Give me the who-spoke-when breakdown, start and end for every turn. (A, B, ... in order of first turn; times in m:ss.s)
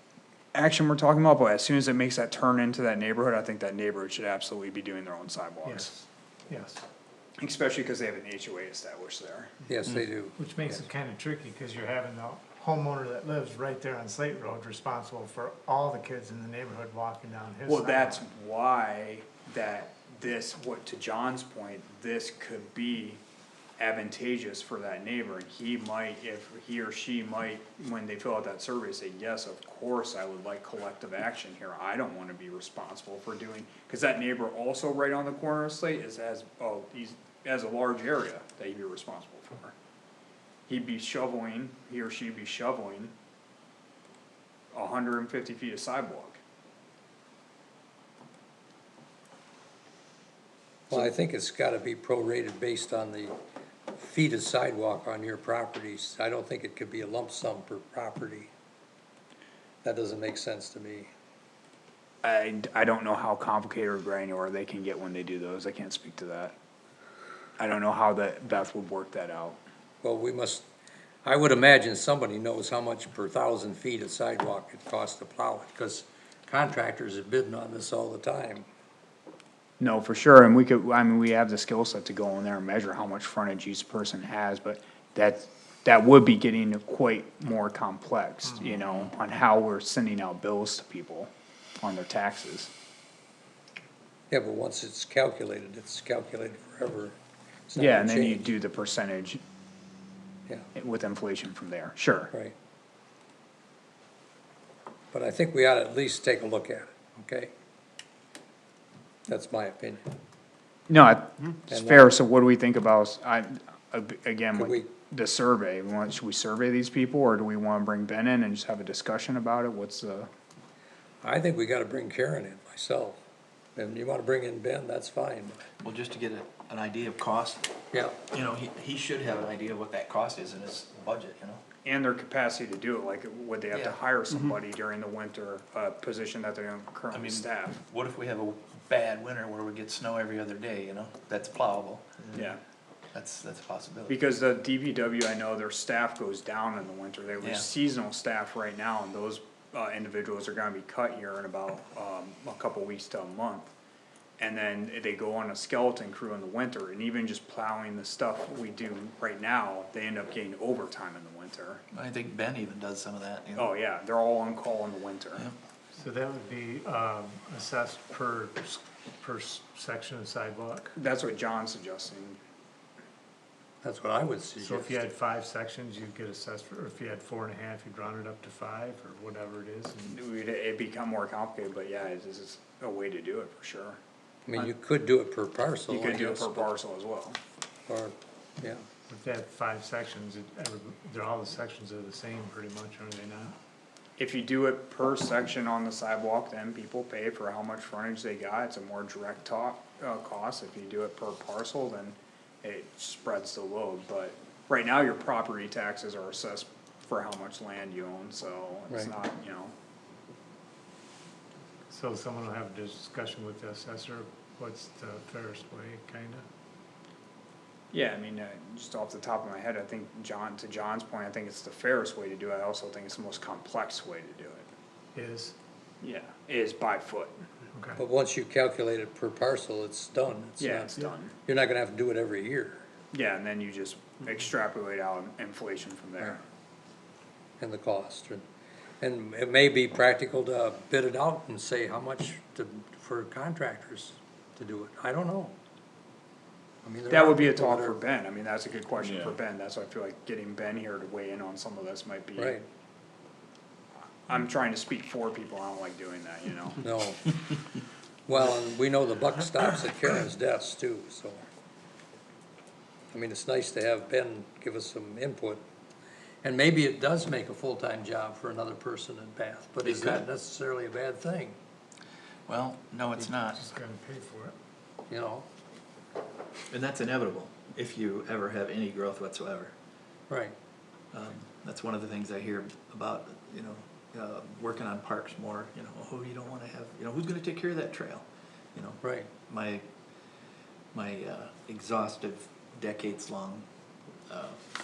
0:00.5-0:06.0 A
0:05.6-0:05.9 B
0:06.5-0:06.8 B
0:07.4-0:09.5 A
0:09.7-0:10.8 C
0:10.4-0:18.2 B
0:17.7-0:23.2 A
0:23.8-0:39.7 A
0:40.7-0:43.1 A
0:44.7-0:46.4 A
0:50.9-0:53.4 C
0:53.9-0:58.5 C
0:59.8-1:01.1 C
1:02.2-1:06.6 A
1:07.6-1:09.6 A
1:10.0-1:10.7 C
1:11.2-1:18.7 C
1:19.8-1:31.3 A
1:31.8-1:32.7 A
1:34.3-1:37.2 C
1:37.7-1:38.5 C
1:37.8-1:39.4 A
1:40.8-1:42.3 A
1:45.1-1:47.5 C
1:49.3-1:50.0 C
1:50.9-2:00.3 A
1:51.7-1:52.1 C
1:54.6-1:54.9 C
2:01.2-2:03.2 C
2:03.8-2:05.6 C
2:05.8-2:07.7 D
2:08.3-2:11.6 D
2:11.8-2:17.8 A
2:13.7-2:14.0 D
2:17.1-2:22.5 D
2:22.3-2:22.6 A
2:23.1-2:24.2 D
2:24.1-2:33.7 A
2:27.4-2:27.7 D
2:34.4-2:41.8 A
2:41.9-2:43.7 D
2:43.6-2:45.5 A
2:46.0-2:50.9 B
2:51.0-2:52.4 A
2:53.8-2:55.0 C
2:54.6-3:00.2 B
3:00.1-3:04.0 A
3:04.5-3:06.7 C
3:05.9-3:07.4 A
3:07.9-3:08.8 C
3:09.1-3:13.6 B
3:14.2-3:29.7 A
3:31.9-3:36.4 B
3:37.9-3:44.7 A
3:45.2-3:45.6 B
3:46.0-3:47.4 A
3:47.7-3:48.0 B
3:48.0-3:52.8 C
3:50.6-3:51.4 A
3:53.1-3:56.4 A
3:57.6-3:58.4 C
3:59.0-4:05.6 C
4:06.8-4:08.0 C
4:07.1-4:12.6 A
4:12.4-4:12.7 C
4:14.3-4:16.8 A
4:16.8-4:17.4 C
4:18.3-4:21.4 C
4:23.1-4:25.6 C
4:26.4-4:31.6 C
4:29.8-4:30.2 D
4:32.5-4:33.6 D
4:33.2-4:34.6 B
4:35.1-4:35.5 C
4:36.7-4:39.7 D
4:40.3-4:40.5 C
4:41.1-4:49.9 D
4:49.0-4:49.3 C
4:50.9-4:53.7 D
4:54.3-4:54.6 D